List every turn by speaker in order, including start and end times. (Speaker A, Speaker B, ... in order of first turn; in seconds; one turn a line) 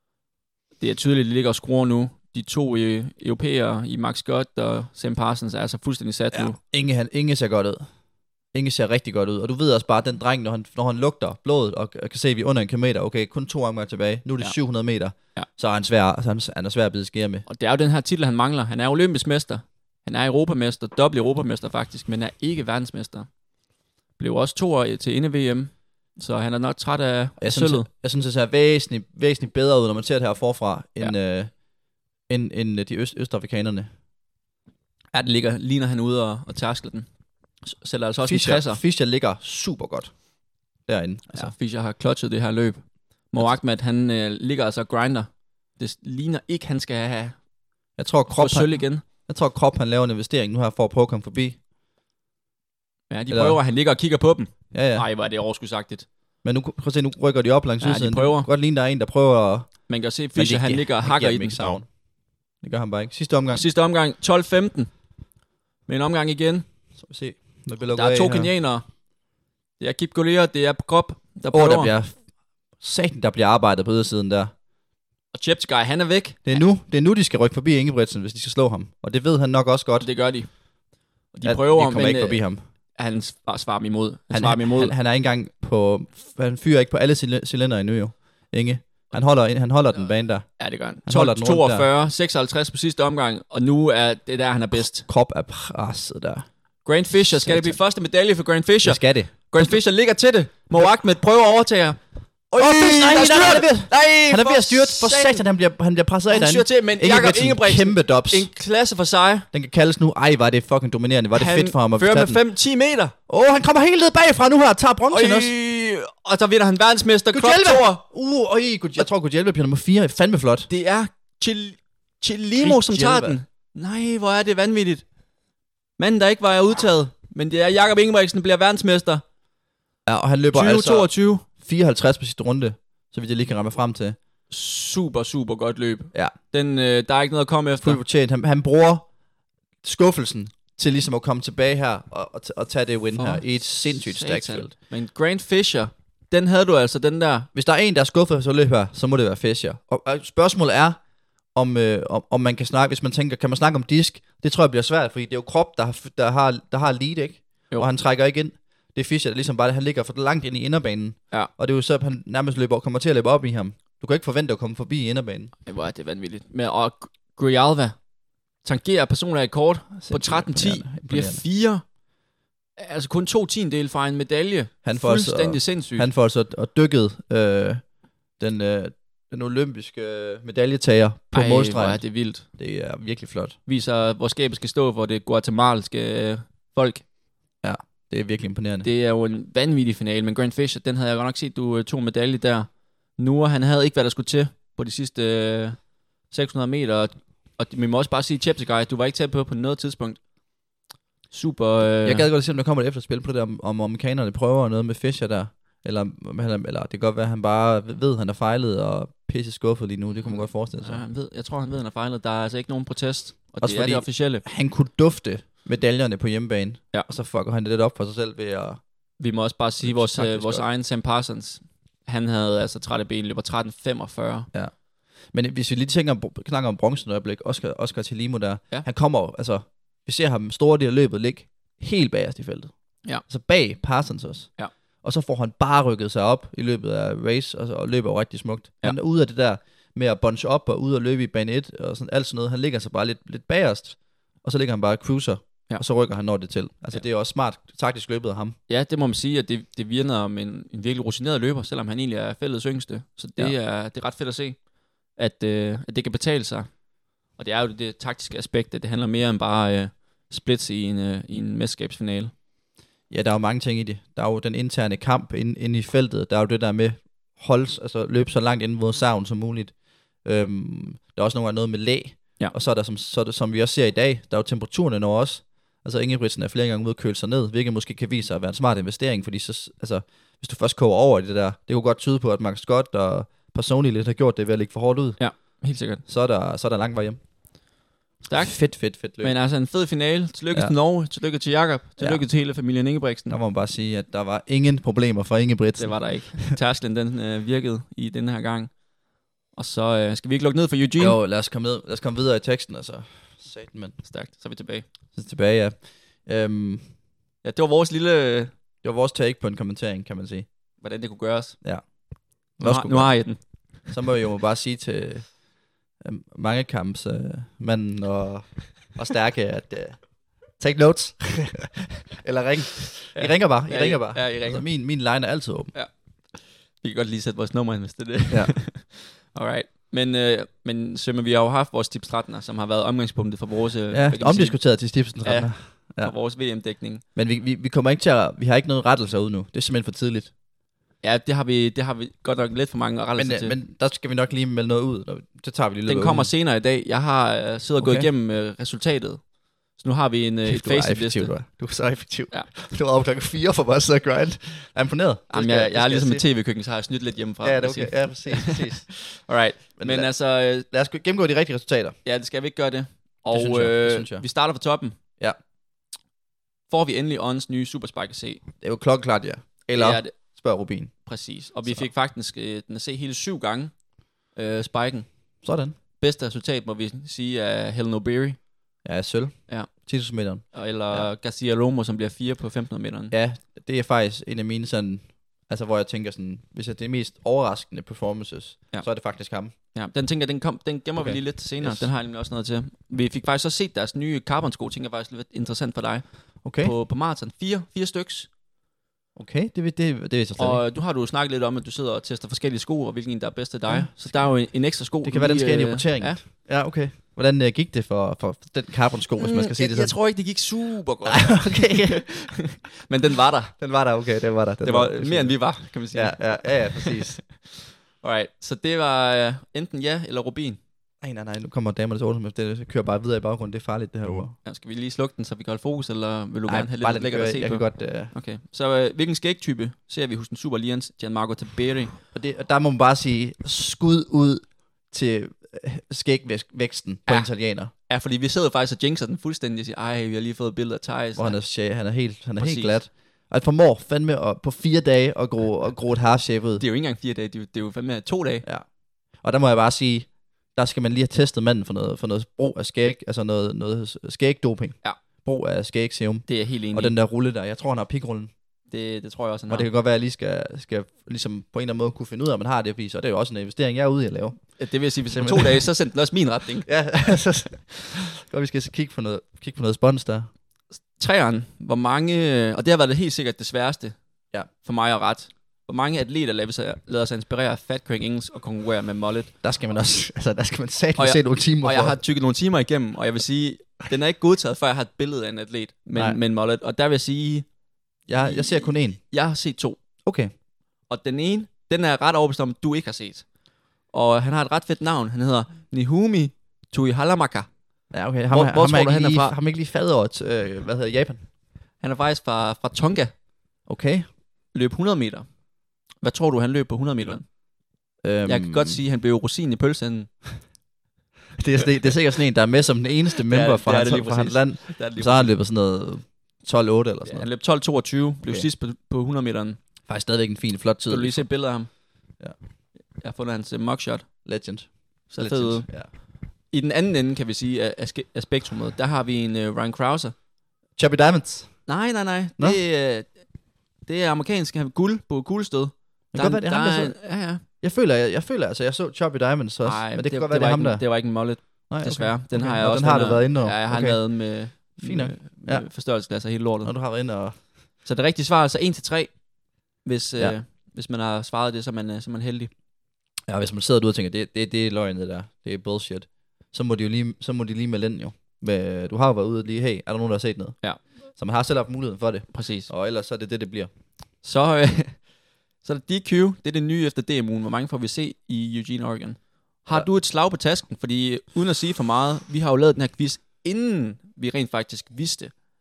Speaker A: 0.8-6.6
Speaker B: 6.3-7.9
Speaker B: 8.5-17.4
Speaker A: 17.5-23.3
Speaker A: 24.2-27.9
Speaker B: 27.4-31.5
Speaker B: 32.3-33.9
Speaker A: 35.1-37.0
Speaker A: 37.6-38.8
Speaker B: 38.2-40.1
Speaker B: 40.9-41.5
Speaker A: 41.3-47.4
Speaker B: 48.0-51.6
Speaker A: 48.3-49.0
Speaker A: 53.1-56.0
Speaker B: 53.3-53.6
Speaker B: 54.7-55.0
Speaker B: 56.4-61.9
Speaker A: 57.8-58.5
Speaker A: 59.9-61.8
Speaker B: 62.6-63.6
Speaker A: 63.5-64.9
Speaker A: 65.9-66.7
Speaker B: 67.0-68.5
Speaker A: 67.9-68.8
Speaker A: 69.8-71.9
Speaker B: 71.5-72.2
Speaker B: 72.8-74.5
Speaker A: 75.3-76.6
Speaker B: 76.4-80.1
Speaker A: 80.0-80.5
Speaker A: 81.3-82.4
Speaker B: 81.4-82.6
Speaker A: 82.9-84.9
Speaker B: 84.3-91.9
Speaker A: 90.6-95.0
Speaker B: 94.8-96.5
Speaker A: 96.8-102.0
Speaker B: 97.1-97.8
Speaker B: 98.8-99.8
Speaker A: 102.5-105.4
Speaker B: 102.5-108.5
Speaker A: 106.3-109.5
Speaker B: 109.5-112.4
Speaker A: 111.3-113.1
Speaker B: 113.3-115.5
Speaker A: 115.1-118.0
Speaker B: 117.3-120.7
Speaker A: 120.7-125.0
Speaker B: 122.5-123.4
Speaker A: 126.0-129.2
Speaker B: 130.1-134.2
Speaker A: 130.5-131.4
Speaker A: 134.5-138.0
Speaker B: 137.8-139.1
Speaker B: 139.8-144.7
Speaker A: 143.1-147.5
Speaker B: 147.5-151.0
Speaker B: 151.5-165.5
Speaker A: 165.7-167.9
Speaker A: 168.6-171.8
Speaker B: 170.0-171.4
Speaker A: 172.8-176.1
Speaker B: 174.8-177.8
Speaker B: 178.4-183.6
Speaker A: 181.3-182.4
Speaker A: 183.7-187.0
Speaker B: 187.6-188.9
Speaker A: 188.8-195.8
Speaker A: 196.3-200.2
Speaker A: 201.3-202.3
Speaker B: 202.0-211.0
Speaker A: 210.2-214.4
Speaker B: 213.6-218.8
Speaker A: 219.2-224.5
Speaker B: 219.8-220.6
Speaker B: 225.3-248.6
Speaker A: 248.7-254.6
Speaker A: 255.2-256.7
Speaker A: 257.4-262.3
Speaker B: 263.1-285.2
Speaker A: 285.2-286.0
Speaker B: 286.0-287.2
Speaker A: 288.2-293.3
Speaker B: 288.3-289.4
Speaker B: 292.0-292.2
Speaker B: 293.3-296.5
Speaker A: 295.8-298.7
Speaker A: 299.5-301.2
Speaker B: 301.0-304.0
Speaker A: 304.0-304.8
Speaker B: 305.1-306.9
Speaker A: 307.4-308.5
Speaker B: 308.8-310.5
Speaker A: 310.8-311.6
Speaker B: 311.6-315.5
Speaker A: 312.6-313.8
Speaker B: 316.0-325.7
Speaker A: 323.1-324.6
Speaker A: 325.7-337.0
Speaker B: 328.3-328.6
Speaker B: 333.9-336.1
Speaker B: 337.1-340.3
Speaker A: 341.0-343.6
Speaker B: 343.2-346.3
Speaker A: 345.9-351.4
Speaker B: 347.8-348.1
Speaker B: 350.4-356.2
Speaker A: 355.3-358.6
Speaker B: 357.4-359.2
Speaker A: 359.2-360.6
Speaker B: 359.8-361.9
Speaker A: 362.0-365.0
Speaker B: 363.3-364.2
Speaker A: 366.7-368.4
Speaker B: 368.6-370.9
Speaker A: 369.7-370.1
Speaker A: 371.1-373.8
Speaker A: 374.3-375.1
Speaker B: 375.4-375.7
Speaker A: 376.0-378.4
Speaker B: 378.8-381.1
Speaker A: 380.5-383.1
Speaker B: 383.1-389.5
Speaker A: 389.6-398.3
Speaker B: 391.0-391.9
Speaker B: 396.4-396.7
Speaker B: 399.1-400.6
Speaker A: 400.4-406.2
Speaker B: 403.7-409.9
Speaker A: 409.2-413.6
Speaker B: 411.0-412.1
Speaker B: 413.6-417.2
Speaker A: 414.6-417.5
Speaker A: 418.0-420.6
Speaker B: 421.0-424.3
Speaker A: 424.4-432.0
Speaker B: 426.5-428.1
Speaker B: 432.1-437.7
Speaker A: 437.1-441.4
Speaker B: 441.1-446.6
Speaker A: 442.4-442.8
Speaker A: 446.6-448.4
Speaker B: 448.4-458.3
Speaker A: 456.3-456.9
Speaker A: 458.7-459.7
Speaker B: 459.5-465.7
Speaker A: 464.6-466.8
Speaker B: 466.6-470.3
Speaker A: 470.8-474.0
Speaker A: 474.5-479.3
Speaker B: 479.4-482.0
Speaker A: 481.0-487.5
Speaker B: 488.1-489.0
Speaker A: 488.2-489.8
Speaker B: 490.0-490.3
Speaker A: 490.9-493.3
Speaker A: 493.9-497.5
Speaker B: 497.9-501.2
Speaker A: 498.3-499.3
Speaker A: 501.8-503.1
Speaker B: 503.7-504.1
Speaker A: 504.5-505.3
Speaker A: 506.0-507.3
Speaker B: 508.0-508.8
Speaker A: 508.2-510.1
Speaker B: 511.4-517.3
Speaker A: 513.3-515.3
Speaker A: 517.0-519.6
Speaker B: 519.9-521.3
Speaker A: 520.9-521.7
Speaker A: 523.0-524.1
Speaker B: 524.2-525.9
Speaker A: 525.1-530.1
Speaker B: 530.8-531.7
Speaker A: 531.7-537.4
Speaker B: 536.1-540.9
Speaker A: 539.6-546.7
Speaker B: 541.7-545.7
Speaker B: 546.6-547.5
Speaker A: 547.8-549.2
Speaker A: 549.8-552.5
Speaker B: 553.2-563.7
Speaker A: 562.3-562.7
Speaker A: 564.2-575.4